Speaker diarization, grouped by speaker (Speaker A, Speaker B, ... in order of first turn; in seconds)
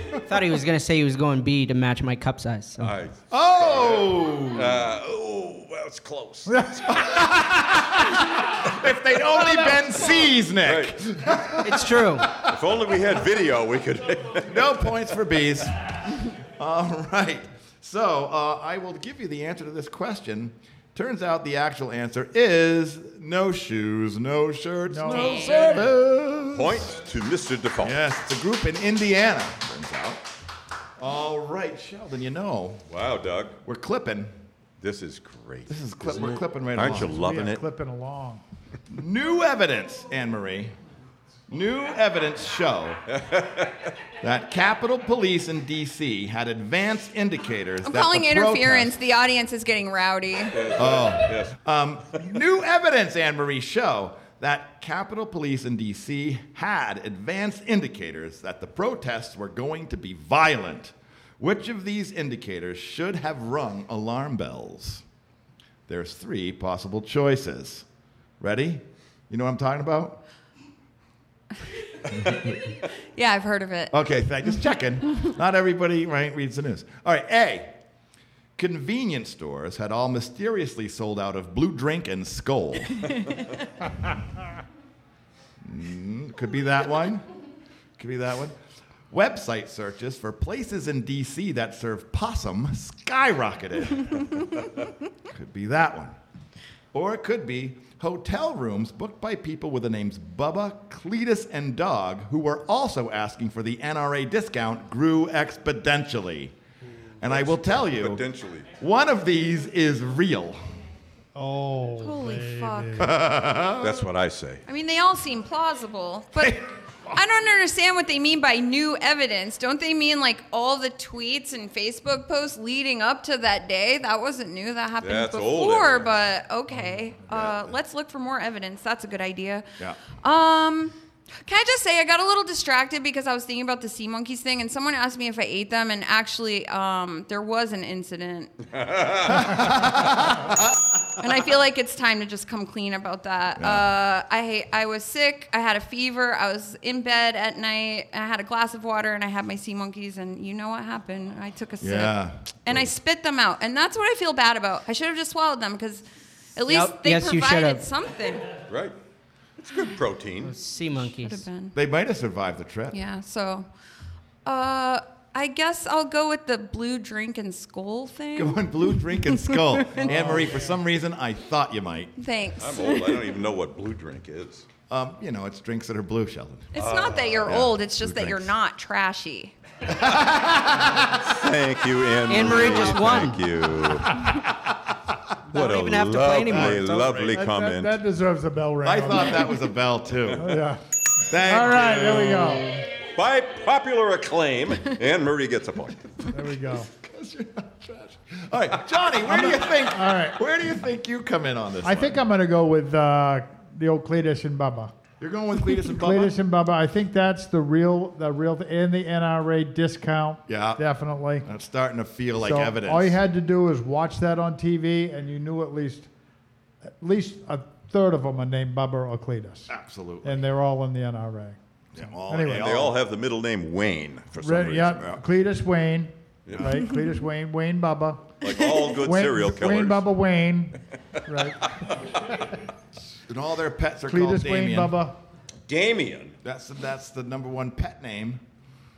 Speaker A: 0.2-2.9, 11.6-12.3, 156.7-157.8, 160.4-161.5, 182.3-183.4, 185.5-187.2
Speaker B: 2.8-6.9, 10.6-11.0, 12.3-14.7, 26.5-28.1, 32.9-33.6, 34.8-37.6, 43.1-43.9, 50.5-51.5, 107.2-108.7, 113.8-114.6, 125.0-126.2, 138.8-139.5, 158.7-158.9, 159.6-160.5, 170.0-170.5, 172.6-174.7, 176.8-177.6, 180.9-184.3, 185.5-188.0, 193.0-196.3, 222.5-225.2, 226.5-226.8, 228.4-230.1, 235.7-236.4
Speaker C: 3.3-4.8, 6.9-12.3, 14.4-26.9, 27.8-30.2, 31.0-32.8, 33.6-34.3, 35.7-37.3, 38.9-40.7, 41.5-43.0, 44.2-49.0, 50.8-65.0, 65.9-67.9, 68.4-70.2, 72.2-72.5, 73.9-77.8, 78.6-83.1, 85.6-87.2, 88.0-88.6, 89.1-94.7, 95.3-96.2, 96.9-106.5, 107.2-108.2, 108.8-110.6, 113.0-114.0, 116.4-117.2, 127.3-127.6, 139.3-140.5, 143.6-143.9, 151.8-152.9, 161.7-163.0, 168.3-172.2, 174.9-176.8, 177.4-178.5, 179.9-181.1, 186.5-187.4, 188.8-190.7, 191.3-192.7, 196.8-202.2, 205.2-206.3, 210.5-210.8, 211.4-213.2, 219.7-220.4, 221.9-223.0, 226.5-226.9, 233.3-235.0, 236.4-238.4
Speaker D: 6.5-7.0, 9.4-9.8, 24.9-25.9, 36.9-38.4, 111.3-113.2, 187.3-189.6, 190.4-192.9, 196.3-196.9, 199.2-200.4, 201.8-204.9, 205.8-211.5, 212.4-216.1, 217.0-219.7, 220.2-222.9, 224.4-231.8, 234.1-235.2
Speaker E: 25.1-25.7, 47.8-50.7, 73.2-73.9, 112.0-113.2, 114.7-116.6, 117.1-129.7, 130.2-138.6, 141.2-158.5, 161.2-161.8, 162.9-163.7, 164.4-170.0, 172.2-173.3, 176.7-179.6